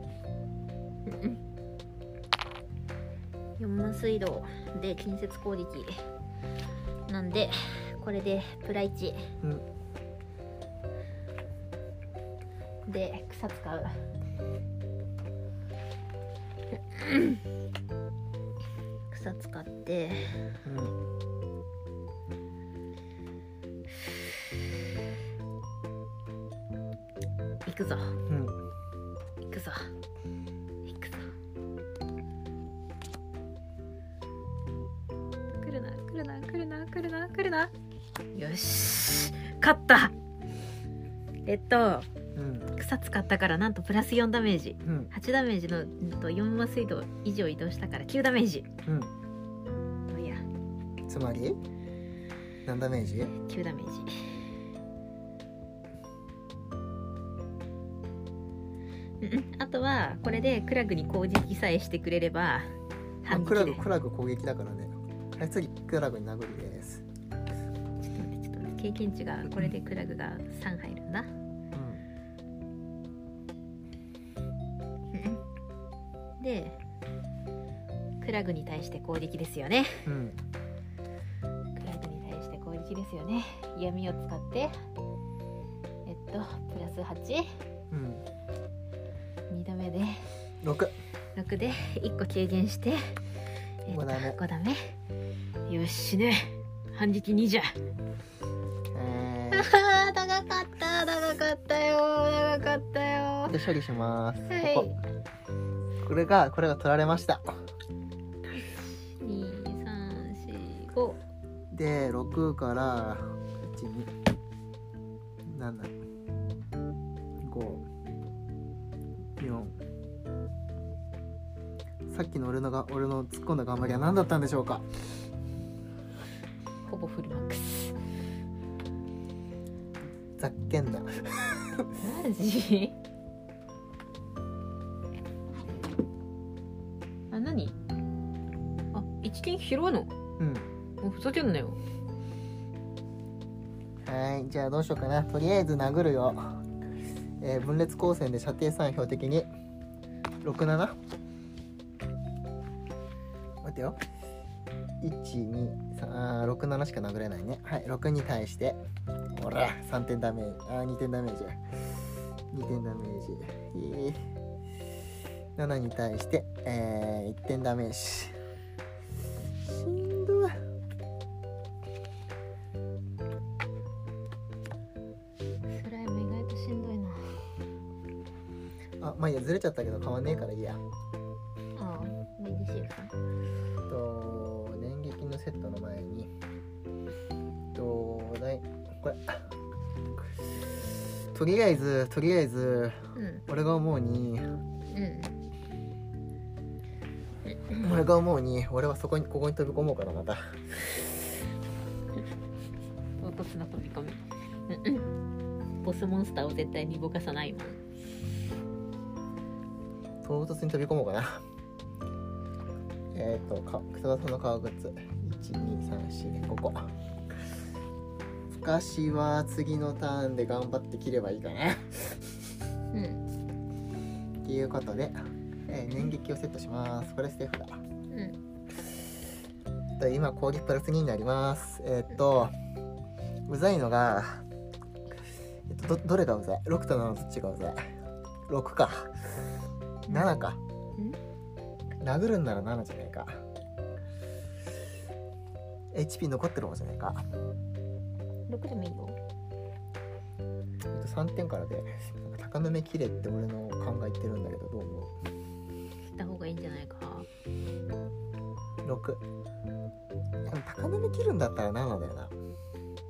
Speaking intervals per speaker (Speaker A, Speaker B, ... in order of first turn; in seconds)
Speaker A: 1.1-1.4, 3.6-6.0, 7.1-9.3, 12.9-14.0, 16.8-17.4, 19.1-20.4, 27.6-28.2, 29.4-29.9, 30.8-31.3, 35.6-37.7, 38.3-40.1, 41.5-42.1, 42.7-48.7, 50.1-50.4, 53.4-54.4, 59.2-63.8, 68.0-71.3, 75.1-75.4, 76.4-76.8, 78.2-80.1, 81.8-84.7, 86.0-87.5, 89.5-90.3, 91.3-93.2, 93.8-95.0, 95.7-97.7, 99.5-103.6, 104.5-105.0, 109.0-111.2, 126.8-128.0, 132.0-132.9, 137.3-137.7, 138.9-140.1, 141.0-141.8, 175.7-177.4, 181.8-183.1, 193.2-193.4, 194.9-195.3, 197.5-197.9, 203.2-205.1, 205.8-207.8, 222.9-223.2, 228.1-228.4, 248.5-249.2, 256.0-257.3
Speaker B: 20.6-20.9, 28.3-28.6, 42.4-42.7, 44.8-45.1, 48.9-49.1, 51.1-51.6, 52.6-53.3, 63.3-67.0, 71.7-72.0, 80.0-80.4, 87.9-88.2, 90.6-90.9, 93.9-94.4, 98.9-99.7, 103.5-104.9, 106.0-107.5, 111.7-114.1, 115.5-115.9, 117.4-117.8, 119.4-119.8, 122.1-124.9, 130.4-131.9, 140.4-140.7, 144.0-146.6, 147.4-149.5, 150.4-151.0, 153.6-154.0, 155.0-158.8, 159.3-161.6, 162.5-164.2, 165.6-168.4, 169.6-170.6, 179.0-180.8, 183.9-186.3, 187.7-189.5, 191.3-194.4, 197.8-200.6, 210.2-211.4, 213.1-216.9, 218.5-222.4, 224.4-227.8, 230.0-232.5, 233.5-234.4, 235.7-237.8, 238.5-239.3, 240.1-240.6, 242.0-243.4, 245.9-247.2, 250.9-255.1, 258.8-259.2, 260.4-262.3